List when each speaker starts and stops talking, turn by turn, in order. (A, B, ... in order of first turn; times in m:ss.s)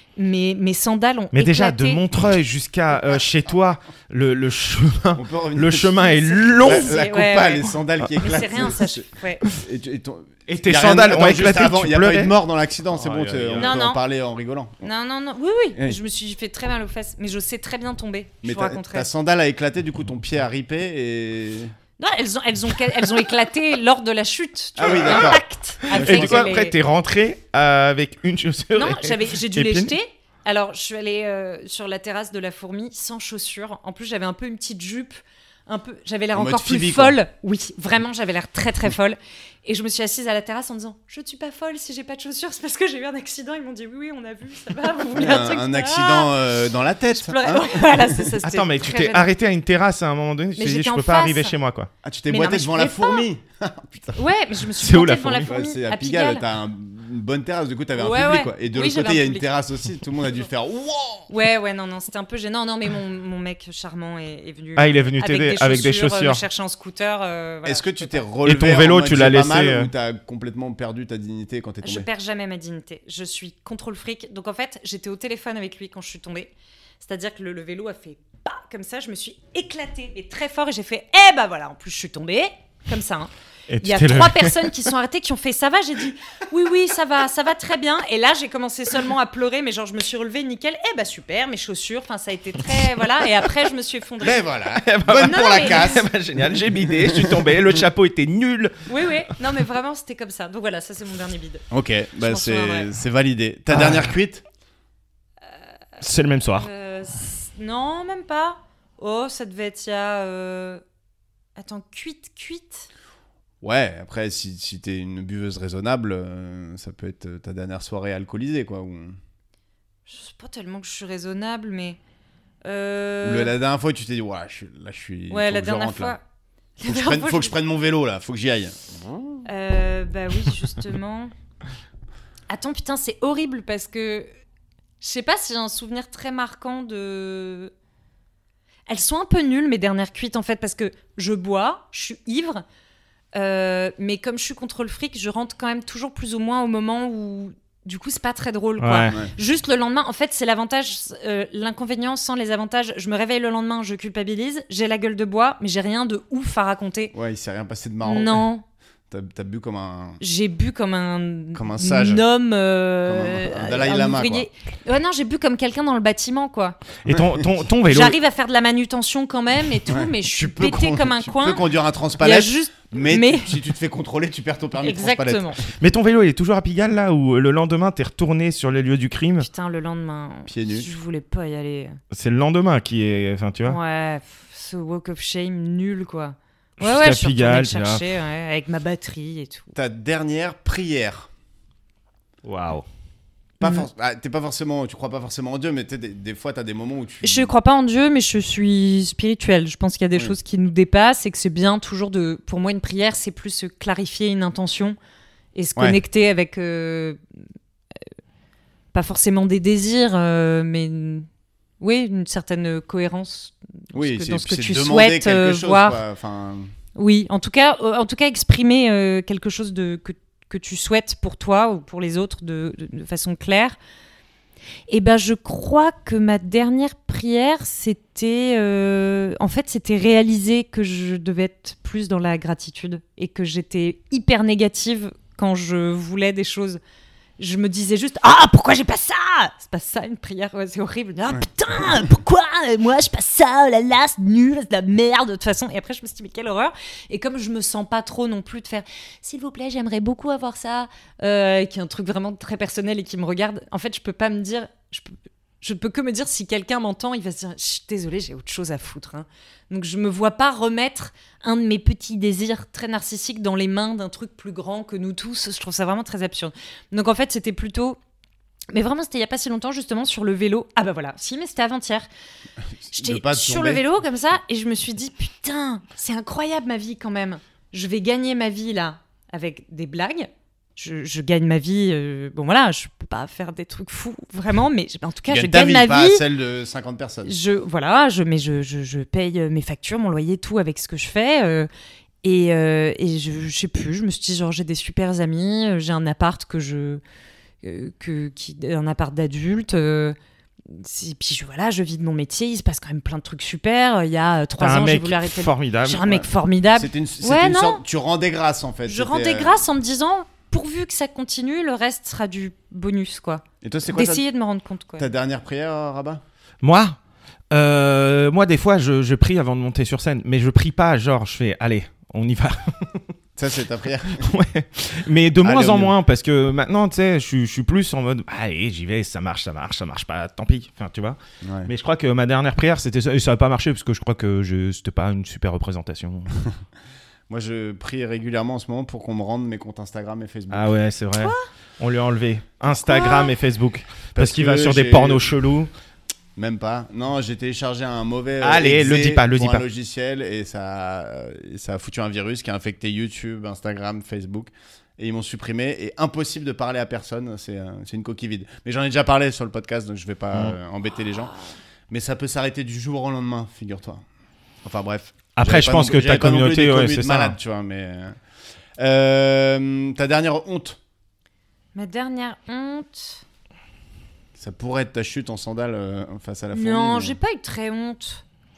0:00.2-0:02.0 A
0:01.3-0:07.0 B
0:05.2-0:14.8 C
0:06.2-0:09.4 A
0:10.5-0:12.4 B
0:12.9-0:13.8 B
0:13.6-0:14.0 A
0:14.8-0:19.1 A
0:18.4-0:21.7 C
0:22.0-0:26.8 A
0:24.8-0:26.5 C
0:25.9-0:29.9 B
0:28.8-0:46.4 A
0:36.3-0:37.2 C
0:45.1-0:48.3 C
0:47.1-0:49.3 A
0:48.4-0:51.9 B
0:50.6-0:51.6 A
0:52.0-0:54.2 C
0:52.3-0:53.3 A
0:54.2-0:56.4 A
0:54.8-0:55.5 B
0:55.4-1:01.3 C
0:58.0-0:59.5 A
1:01.3-1:08.2 A
1:04.8-1:06.4 B
1:07.6-1:12.1 C
1:08.4-1:09.9 B
1:11.8-1:23.3 A
1:23.7-1:24.8 B
1:23.8-1:34.5 A
1:34.2-1:36.1 C
1:34.8-1:38.9 B
1:35.1-1:36.0 A
1:38.9-1:41.7 A
1:41.7-1:44.4 C
1:42.2-1:42.9 A
1:43.7-1:44.1 B
1:46.0-1:46.7 B
1:46.4-1:50.8 A
1:51.6-1:52.9 A
1:53.6-1:59.2 C
2:00.1-2:02.0 A
2:02.6-2:03.5 A
2:03.2-2:06.2 C
2:05.3-2:06.2 A
2:06.8-2:07.6 A
2:06.8-2:08.8 C
2:09.5-2:11.3 A
2:12.5-2:14.3 A
2:15.0-2:17.7 A
2:18.9-2:22.6 A
2:23.4-2:37.1 A
2:28.8-2:29.2 B
2:37.1-2:38.4 C
2:38.0-2:38.6 A
2:39.1-2:40.2 C
2:40.2-2:46.8 A
2:41.6-2:42.2 C
2:43.0-2:44.5 C
2:47.0-2:48.2 B
2:47.1-2:47.5 C
2:47.9-2:51.6 A
2:49.9-2:55.6 C
2:52.2-2:53.6 A
2:54.8-2:55.6 A
2:55.8-2:59.5 B
2:59.4-3:02.0 A
3:00.5-3:00.9 C
3:02.1-3:03.8 B
3:03.6-3:09.7 A
3:06.8-3:08.0 B
3:09.8-3:11.3 C
3:12.4-3:12.9 B
3:13.6-3:17.5 C
3:17.2-3:25.0 A
3:25.6-3:27.2 A
3:28.9-3:31.3 A
3:31.8-3:36.0 A
3:33.9-3:36.7 C
3:37.0-3:43.8 A
3:44.9-3:56.8 A
3:57.4-4:28.0 A
4:28.7-4:32.1 A
4:32.8-4:33.8 C
4:33.0-4:46.2 A
4:45.3-4:47.4 C
4:47.2-4:51.7 A
4:52.2-4:57.0 A
4:57.6-5:00.2 A
5:00.7-5:07.8 A
5:04.6-5:06.1 B
5:06.8-5:09.6 C
5:08.9-5:15.1 A
5:13.6-5:14.2 C
5:15.0-5:16.2 C
5:16.6-5:17.0 B
5:17.5-5:23.0 B
5:23.4-5:24.3 C
5:24.2-5:36.3 B
5:25.4-5:26.0 C
5:31.4-5:31.7 C
5:37.3-5:40.7 C
5:40.5-5:45.7 B
5:41.2-5:41.4 A
5:42.8-5:43.3 A
5:44.2-5:45.3 C
5:46.4-6:01.3 C
5:48.4-5:49.6 B
6:01.9-6:04.0 C
6:04.6-6:08.2 C
6:05.4-6:07.4 B
6:08.8-6:10.8 C
6:11.8-6:13.2 A
6:14.4-6:17.2 C
6:16.5-6:18.2 A